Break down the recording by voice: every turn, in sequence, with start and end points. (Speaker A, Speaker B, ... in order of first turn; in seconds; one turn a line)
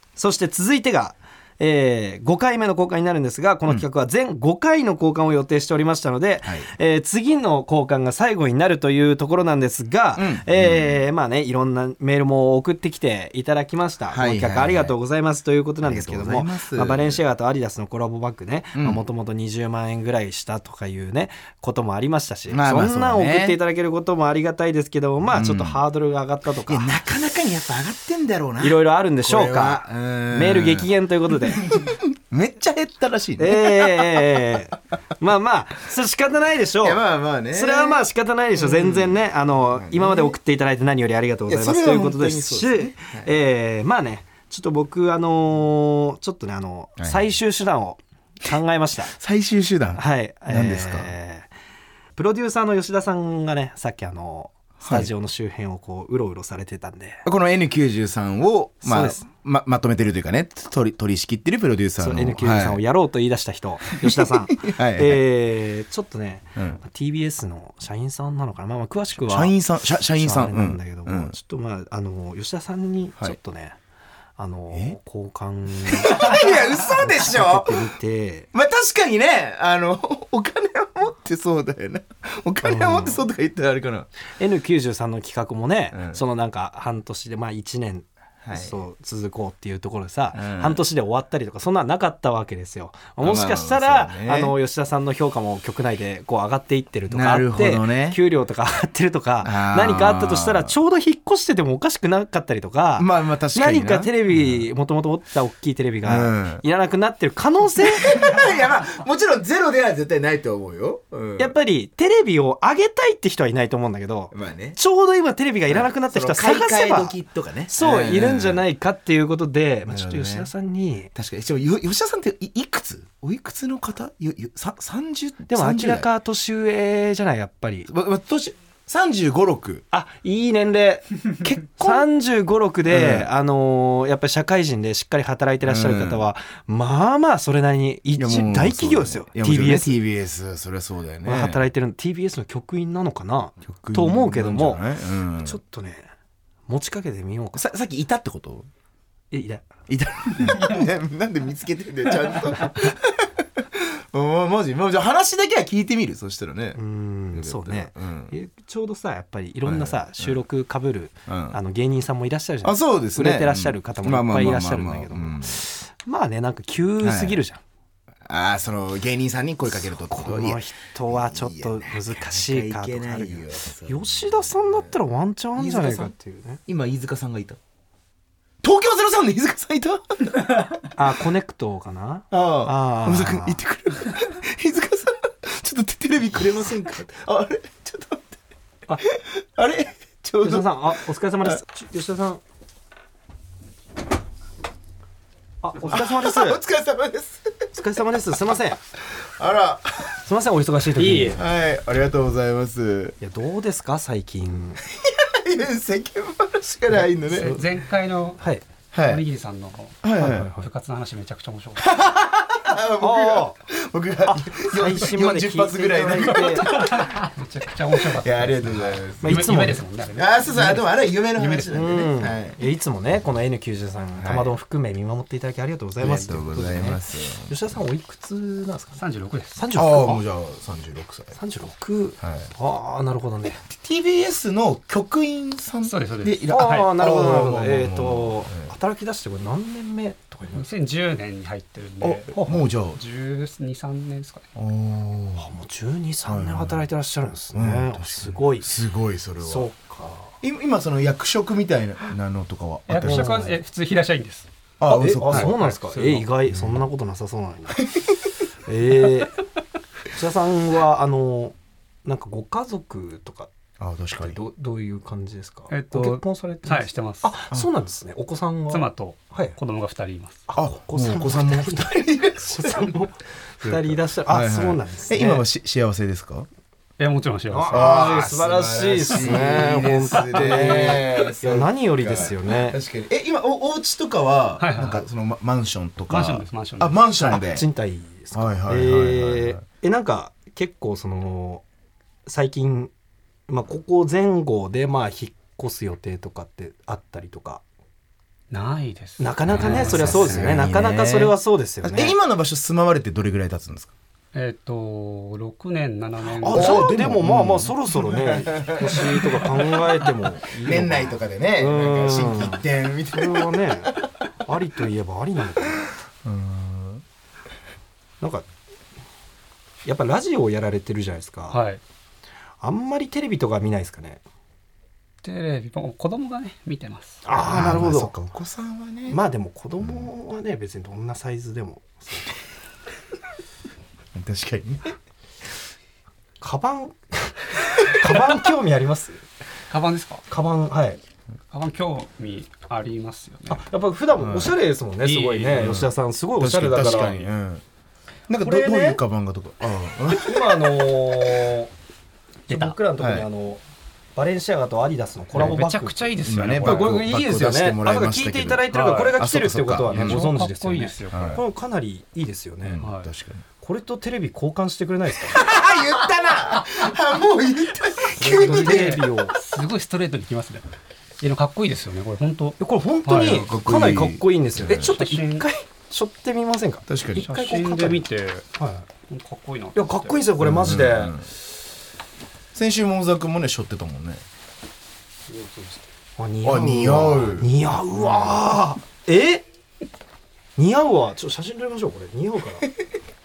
Speaker A: 0.1-27.0
Speaker B: 6.4-6.7
Speaker B: 10.2-11.0
Speaker B: 14.1-14.9
Speaker B: 15.8-17.2
Speaker B: 18.7-19.0
Speaker B: 22.5-23.6
Speaker B: 25.3-25.8
Speaker B: 26.7-34.6
Speaker A: 28.6-31.7
Speaker A: 33.4-37.0
Speaker B: 36.8-39.2
Speaker A: 37.5-49.1
Speaker B: 39.7-40.4
Speaker B: 41.5-43.3
Speaker B: 47.0-47.3
Speaker B: 49.1-51.1
Speaker A: 50.0-51.5
Speaker A: 52.1-57.2
Speaker B: 54.8-55.1
Speaker B: 57.2-62.8
Speaker A: 58.8-59.2
Speaker A: 62.0-69.5
Speaker B: 64.0-65.2
Speaker B: 69.2-71.3
Speaker A: 70.1-73.8
Speaker A: 74.4-78.5
Speaker B: 74.7-75.0
Speaker B: 75.8-77.9
Speaker B: 78.5-84.1
Speaker A: 82.6-83.2
Speaker A: 84.4-108.4
Speaker B: 85.9-86.2
Speaker B: 88.4-88.8
Speaker B: 90.3-90.8
Speaker B: 93.2-94.5
Speaker B: 97.1-98.2
Speaker B: 99.4-100.7
Speaker B: 103.0-104.6
Speaker B: 106.0-106.6
Speaker B: 107.8-111.5
Speaker A: 111.4-117.1
Speaker B: 114.3-114.8
Speaker B: 115.7-118.6
Speaker A: 117.7-121.1
Speaker B: 119.9-120.5
Speaker B: 121.1-126.1
Speaker A: 125.5-127.9
Speaker B: 127.9-129.8
Speaker A: 129.9-139.9
Speaker B: 131.4-132.1
Speaker B: 132.9-133.3
Speaker B: 135.6-136.2
Speaker B: 138.2-141.6
Speaker A: 141.2-144.8
Speaker B: 143.6-145.6
Speaker A: 145.4-146.1
Speaker A: 146.7-147.6
Speaker B: 147.5-148.7
Speaker A: 149.3-149.7
Speaker B: 149.9-156.8
Speaker A: 156.7-167.6
Speaker B: 157.3-158.3
Speaker B: 159.6-160.4
Speaker B: 161.3-161.6
Speaker B: 162.6-165.6
Speaker B: 167.0-167.4
Speaker B: 168.2-174.9
Speaker A: 169.7-176.6
Speaker B: 175.6-176.1
Speaker B: 176.7-177.6
Speaker B: 178.6-180.6
Speaker A: 180.9-183.6
Speaker B: 182.3-188.3
Speaker B: 189.1-191.6
Speaker A: 190.4-192.4
Speaker A: 195.6-196.6
Speaker B: 195.8-197.7
Speaker A: 197.7-198.8
Speaker B: 199.2-200.2
Speaker A: 200.2-201.4
Speaker C: 201.0-201.4
Speaker B: 201.3-203.2
Speaker A: 203.2-204.8
Speaker B: 204.8-207.6
Speaker C: 207.2-208.4
Speaker B: 208.9-209.2
Speaker C: 208.9-211.9
Speaker B: 210.0-210.5
Speaker A: 210.2-210.7
Speaker B: 211.8-217.2
Speaker A: 213.0-213.6
Speaker A: 214.2-216.7
Speaker C: 216.4-220.8
Speaker B: 218.1-219.5
Speaker A: 219.2-219.8
Speaker B: 220.1-222.6
Speaker C: 221.4-221.7
Speaker A: 221.7-229.0
Speaker B: 224.2-224.5
Speaker B: 226.0-227.6
Speaker C: 229.0-229.6
Speaker A: 229.5-230.2
Speaker B: 229.7-231.3
Speaker A: 231.3-233.6
Speaker B: 232.2-232.5
Speaker B: 233.7-238.7
Speaker C: 235.8-236.9
Speaker A: 236.5-240.7
Speaker C: 240.5-242.4
Speaker A: 242.0-242.6
Speaker B: 242.4-243.0
Speaker C: 242.9-244.5
Speaker B: 244.5-245.5
Speaker A: 245.4-248.7
Speaker B: 246.2-246.9
Speaker B: 247.5-249.7
Speaker A: 249.4-250.3
Speaker B: 250.4-253.4
Speaker C: 252.9-254.5
Speaker A: 253.0-253.6
Speaker B: 254.8-255.6
Speaker A: 254.9-257.8
Speaker C: 255.2-256.3
Speaker B: 256.5-256.8
Speaker B: 257.8-258.1
Speaker A: 258.6-259.4
Speaker A: 260.1-263.5
Speaker B: 263.8-264.4
Speaker A: 264.2-269.6
Speaker C: 265.7-267.3
Speaker C: 268.7-270.4
Speaker A: 270.5-275.4
Speaker B: 270.5-272.9
Speaker B: 273.6-276.5
Speaker C: 277.0-278.0
Speaker A: 277.5-282.8
Speaker B: 277.7-287.6
Speaker C: 284.6-285.0
Speaker C: 286.1-287.0
Speaker A: 287.2-291.6
Speaker B: 288.3-289.6
Speaker A: 292.2-292.9
Speaker A: 293.5-297.6
Speaker C: 298.5-300.6
Speaker A: 299.2-302.1
Speaker B: 299.5-303.9
Speaker C: 304.3-306.9
Speaker A: 306.4-315.9
Speaker B: 306.4-309.7
Speaker B: 310.6-314.1
Speaker B: 316.2-317.0
Speaker A: 318.2-318.4
Speaker A: 319.8-321.6
Speaker C: 321.5-321.8
Speaker A: 322.6-324.2
Speaker C: 325.2-327.2
Speaker A: 327.2-328.1
Speaker B: 327.4-329.2
Speaker A: 329.1-332.3
Speaker B: 334.1-334.9
Speaker A: 336.4-339.2
Speaker C: 339.7-340.2
Speaker A: 340.3-341.0
Speaker C: 341.5-343.6
Speaker A: 343.5-347.3
Speaker B: 344.1-344.5
Speaker C: 345.0-345.8
Speaker B: 345.5-347.6
Speaker B: 348.3-351.5
Speaker A: 348.4-349.0
Speaker A: 350.2-351.7
Speaker A: 352.5-353.6
Speaker C: 352.5-352.7
Speaker B: 353.0-353.3
Speaker A: 354.1-356.0
Speaker C: 355.3-357.0
Speaker B: 356.2-360.2
Speaker A: 356.6-362.8
Speaker C: 358.7-359.2
Speaker C: 359.9-361.4
Speaker B: 361.1-361.4
Speaker B: 362.6-363.4
Speaker C: 362.8-363.1
Speaker A: 363.6-365.5
Speaker B: 365.3-369.0
Speaker A: 368.2-369.3
Speaker C: 368.3-370.6
Speaker C: 371.2-373.4
Speaker A: 372.6-376.9
Speaker B: 373.2-374.9
Speaker C: 374.7-375.5
Speaker B: 376.9-378.0
Speaker C: 377.1-378.5
Speaker A: 378.6-378.9
Speaker C: 379.1-380.2
Speaker A: 379.7-381.2
Speaker B: 380.4-381.3
Speaker B: 382.5-384.2
Speaker C: 385.3-385.8
Speaker A: 386.2-389.4
Speaker B: 386.4-387.5
Speaker A: 390.6-392.7
Speaker B: 392.6-392.9